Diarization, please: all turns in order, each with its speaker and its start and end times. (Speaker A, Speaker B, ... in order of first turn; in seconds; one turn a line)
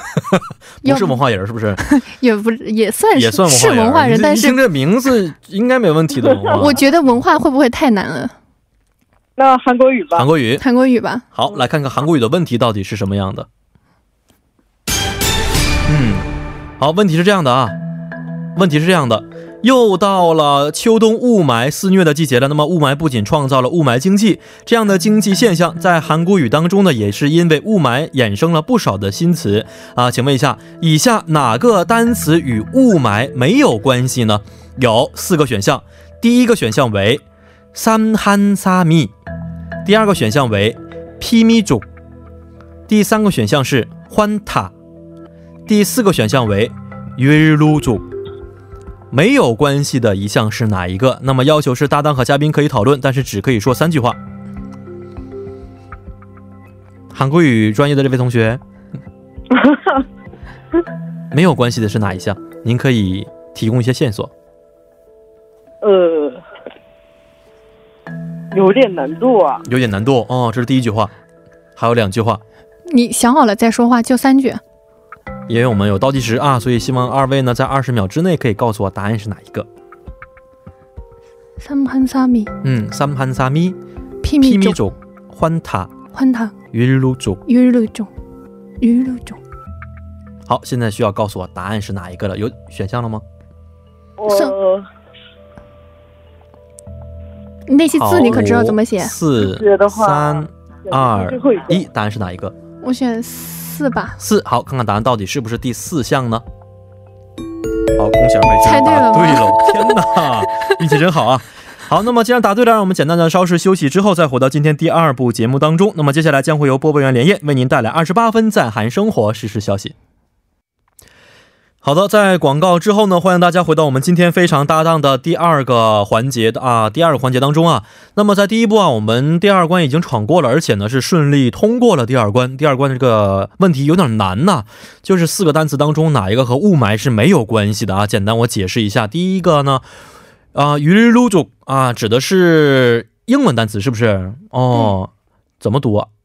Speaker A: 0.3-1.8
Speaker B: 0.8-1.2
Speaker B: 1.8-4.6
Speaker A: 3.1-6.8
Speaker B: 6.5-8.3
Speaker C: 9.4-10.3
Speaker A: 10.2-10.6
Speaker B: 10.6-11.3
Speaker A: 11.3-13.5
Speaker A: 15.9-16.3
Speaker A: 16.8-17.8
Speaker A: 18.6-37.2
Speaker A: 37.7-39.1
Speaker A: 39.8-41.9
Speaker A: 42.9-44.7
Speaker A: 45.7-48.1
Speaker A: 49.1-54.2
Speaker A: 57.1-58.6
Speaker C: 59.5-60.0
Speaker A: 61.3-64.3
Speaker C: 65.8-66.4
Speaker C: 68.5-69.7
Speaker A: 69.7-71.1
Speaker A: 71.8-72.4
Speaker B: 72.9-74.6
Speaker A: 75.5-79.7
Speaker B: 81.6-82.5
Speaker A: 82.6-83.8
Speaker B: 84.2-84.8
Speaker A: 84.4-85.9
Speaker B: 86.1-86.5
Speaker A: 86.7-87.4
Speaker B: 87.5-88.1
Speaker B: 88.8-89.4
Speaker A: 90.5-93.2
Speaker C: 94.2-94.9
Speaker B: 94.3-94.5
Speaker B: 97.7-99.1
Speaker A: 98.0-102.5
Speaker C: 99.4-101.8
Speaker B: 102.8-104.2
Speaker A: 104.2-106.4
Speaker A: 108.0-119.9
Speaker B: 108.6-110.0
Speaker A: 121.8-139.8
Speaker A: 140.6-146.1